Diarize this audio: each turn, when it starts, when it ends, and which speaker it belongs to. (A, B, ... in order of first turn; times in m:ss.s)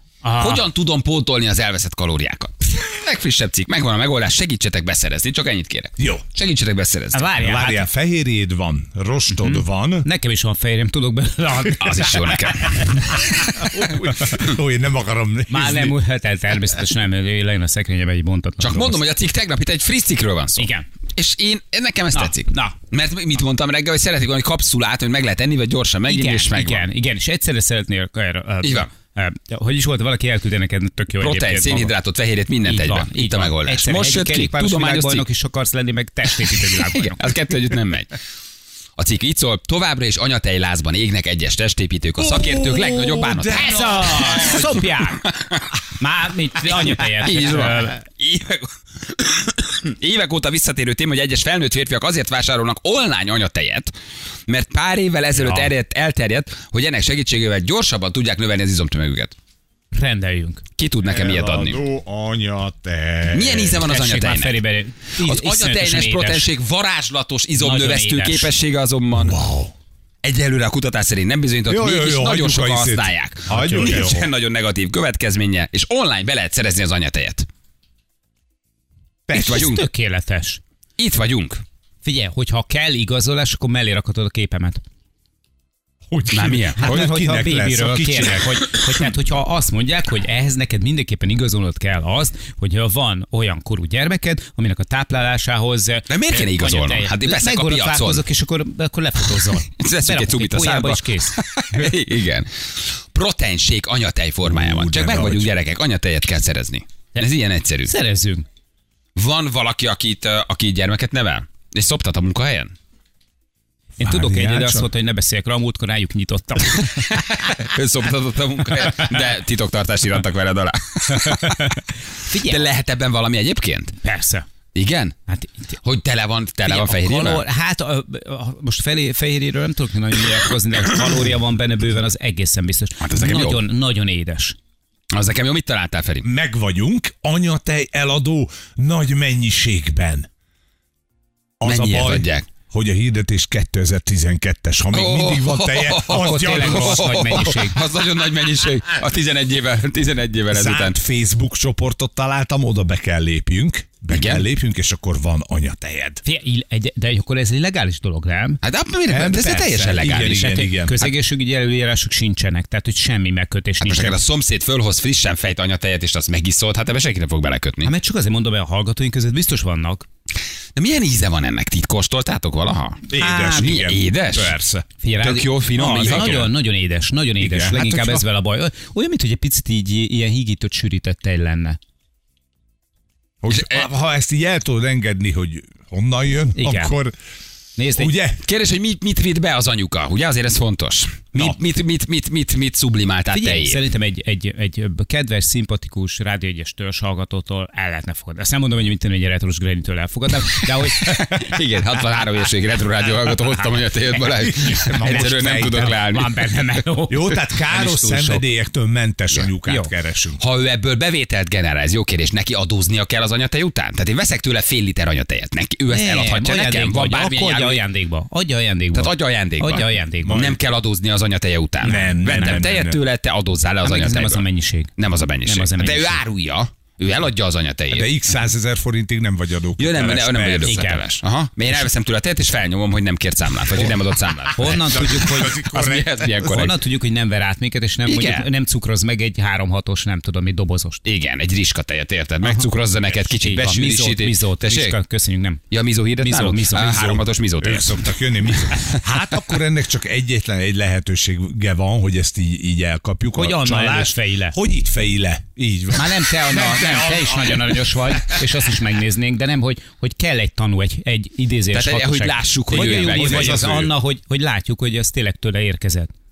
0:00.2-0:00.6 A
0:00.4-0:07.3 B
0:06.0-0:06.3 C
0:07.1-0:07.8 A
0:07.4-0:10.1 C
0:09.3-0:13.1 A
0:11.7-0:13.8 B
0:13.1-0:16.0 C
0:15.5-0:19.0 A
0:18.6-0:26.8 B
0:20.6-0:20.8 A
0:22.1-0:22.8 A
0:26.1-0:31.9 A
0:28.6-0:28.9 B
0:31.2-0:35.2 B
0:32.6-0:37.7 A
0:36.4-0:38.2 B
0:39.0-0:45.8 B
0:42.2-0:44.8 C
0:43.5-0:45.2 A
0:45.9-0:48.0 A
0:46.6-0:53.9 B
0:54.5-0:59.3 B
0:55.4-0:55.7 A
0:59.9-1:00.6 A
1:00.8-1:01.8 B
1:01.0-1:03.9 C
1:03.3-1:04.6 B
1:03.8-1:06.5 A
1:05.2-1:09.4 B
1:07.6-1:08.5 A
1:09.1-1:09.7 C
1:10.2-1:17.5 B
1:11.6-1:14.3 C
1:13.5-1:14.2 A
1:19.3-1:19.8 C
1:19.3-1:19.8 B
1:19.3-1:20.6 A
1:21.0-1:21.6 B
1:22.0-1:24.8 A
1:26.1-1:28.6 C
1:26.3-1:26.8 B
1:26.8-1:41.9 A
1:36.1-1:38.2 B
1:39.6-1:47.9 B
1:44.4-1:45.5 C
1:47.8-1:48.4 A
1:49.2-1:52.7 B
1:54.0-1:57.2 A
1:54.0-1:54.9 C
1:56.8-2:01.8 B
2:02.2-2:02.7 A
2:02.4-2:03.9 B
2:04.0-2:04.4 A
2:04.7-2:05.2 B
2:05.3-2:05.6 A
2:05.8-2:07.4 B
2:06.6-2:14.6 A
2:13.0-2:13.6 B
2:15.1-2:16.2 B
2:16.2-2:20.3 C
2:21.6-2:27.6 C
2:21.6-2:22.5 B
2:24.9-2:31.0 B
2:26.2-2:27.8 A
2:30.5-2:36.2 C
2:34.1-2:34.5 B
2:36.2-2:38.6 A
2:38.6-2:40.5 B
2:39.1-2:41.0 C
2:40.0-2:44.2 A
2:43.8-2:47.9 B
2:47.8-2:50.0 A
2:50.8-2:54.5 B
2:53.1-2:54.8 C
2:55.0-3:01.8 A
2:55.2-2:56.5 B
2:55.8-2:56.4 C
2:57.4-2:58.2 C
3:03.4-3:07.1 C
3:03.5-3:03.9 B
3:06.5-3:06.9 A
3:07.8-3:08.1 A
3:07.9-3:08.4 C
3:08.4-3:13.8 B
3:13.3-3:21.4 A
3:21.0-3:26.6 B
3:24.4-3:25.9 C
3:25.0-3:28.4 A
3:27.1-3:30.4 C
3:29.6-3:29.9 A
3:30.4-3:37.8 B
3:35.9-3:40.4 A
3:38.9-3:44.4 B
3:40.2-3:40.6 C
3:41.8-3:42.6 A
3:41.8-3:43.0 C
3:43.8-3:44.9 A
3:45.0-3:48.1 B
3:45.4-3:46.2 A
3:47.9-3:50.8 C
3:49.8-3:56.8 B
3:50.6-3:51.0 A
3:54.6-3:55.8 A
3:54.6-3:56.7 C
3:56.4-4:01.0 A
3:58.0-3:58.5 B
4:01.0-4:04.9 B
4:02.4-4:05.6 A
4:05.7-4:08.0 B
4:06.2-4:07.2 A
4:06.7-4:18.4 C
4:13.3-4:14.6 A
4:15.9-4:26.1 A
4:21.7-4:23.7 B
4:22.7-4:23.9 C